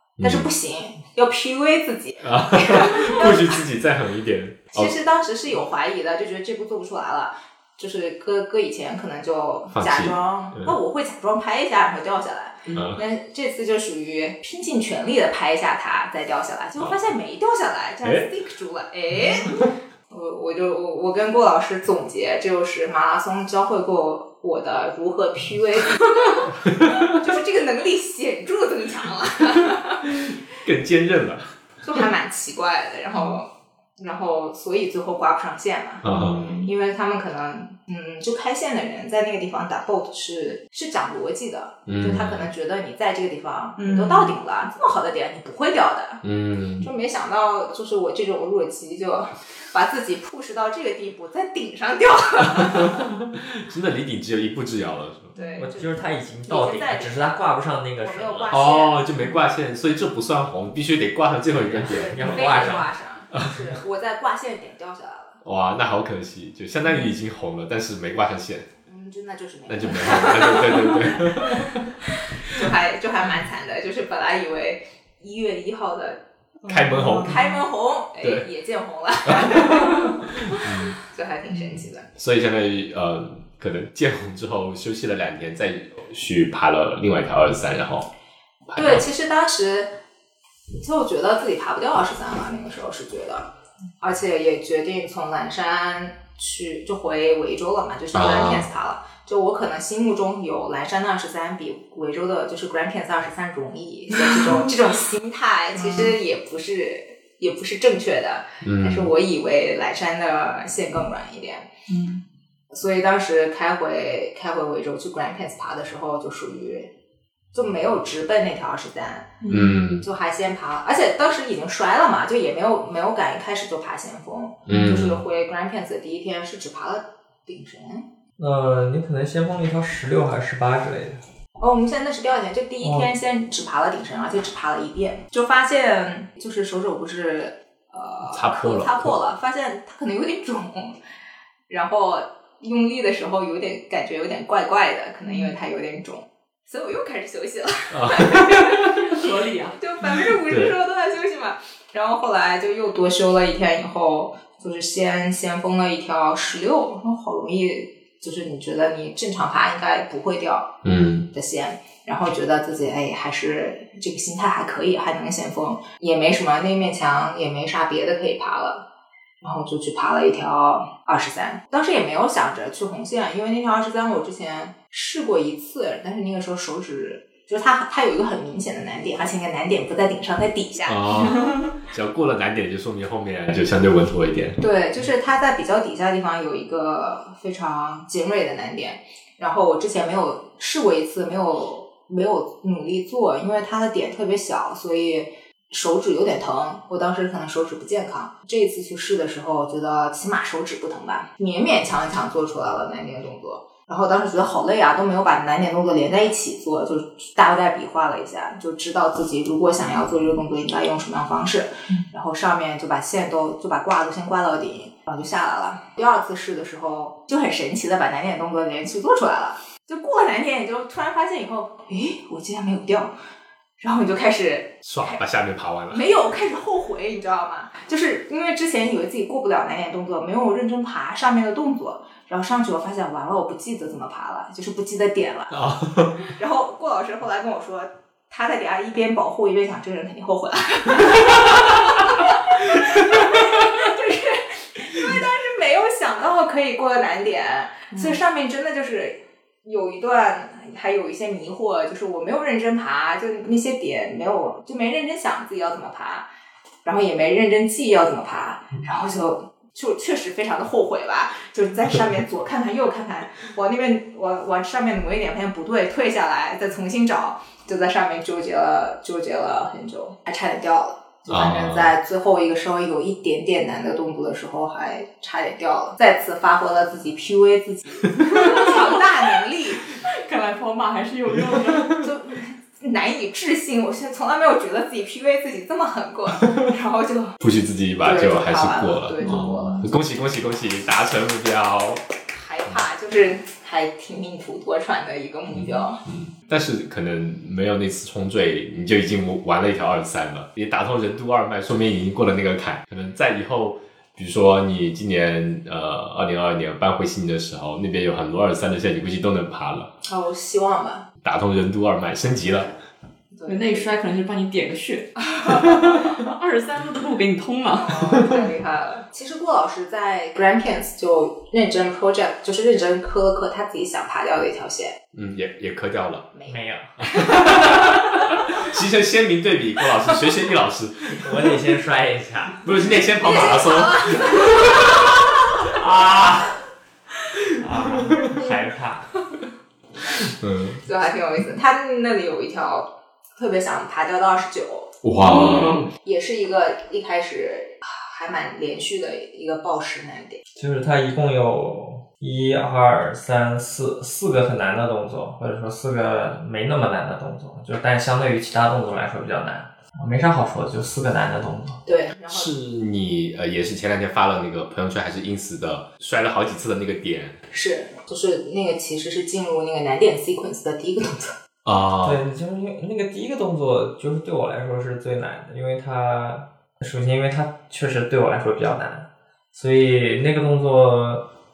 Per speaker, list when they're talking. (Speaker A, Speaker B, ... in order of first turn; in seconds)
Speaker A: 0.2-0.5, 2.2-5.0, 9.7-10.8, 12.7-13.0, 18.0-18.3, 26.8-27.1, 30.6-31.5, 36.0-36.4, 41.9-42.5, 46.2-46.9, 52.7-55.3, 58.5-62.7, 63.4-63.7, 65.4-68.7, 69.7-71.9, 76.7-77.4, 78.2-78.5, 79.3-81.0, 82.2-88.1, 88.7-89.0, 98.1-98.7, 108.6-109.1, 119.5-120.0, 124.7-125.2, 138.3-139.2, 147.9-148.9, 150.5-150.8, 160.8-161.3, 180.9-184.6, 224.8-226.1, 235.5-236.3, 242.8-243.6, 271.3-271.9, 287.4-292.0, 295.6-309.9, 311.2-312.7, 325.1-326.3, 327.0-331.3, 332.6-334.8, 340.2-340.8, 345.0-345.8, 362.3-367.4, 371.6-372.2
Speaker B: 0.2-3.6, 4.7-30.2, 31.8-46.2, 46.8-53.1, 55.4-59.3, 61.9-65.4, 68.9-76.2, 77.2-82.1, 88.8-89.9, 90.8-93.5, 94.0-111.7, 112.7-116.9, 117.5-119.4, 119.9-128.1, 131.6-141.0, 141.7-149.1, 149.8-160.8, 161.3-168.8, 169.4-181.5, 184.6-223.1, 223.8-225.2, 225.9-235.6, 236.2-256.3, 256.9-279.9, 282.0-287.4, 288.0-289.9, 292.3-296.0, 310.0-311.1, 313.3-313.9, 315.4-316.2, 317.8-325.0, 326.3-327.9, 333.2-335.1, 340.8-344.9, 345.9-350.4, 361.9-362.5, 367.5-371.4
Speaker C: 36.1-36.7, 43.8-44.4, 55.4-55.7, 76.6-77.6, 104.2-104.7, 105.8-106.2, 111.9-112.2, 119.4-119.8, 145.2-145.6, 148.7-149.8, 181.3-181.6, 247.9-248.2, 278.3-278.9, 279.9-282.0, 289.2-289.8, 313.5-318.4, 345.3-345.9
Speaker D: 55.6-58.6, 61.6-62.9, 128.4-131.2, 132.8-133.1, 326.5-327.0, 331.2-332.6, 335.7-336.6, 337.6-339.1, 350.6-361.8, 372.0-381.2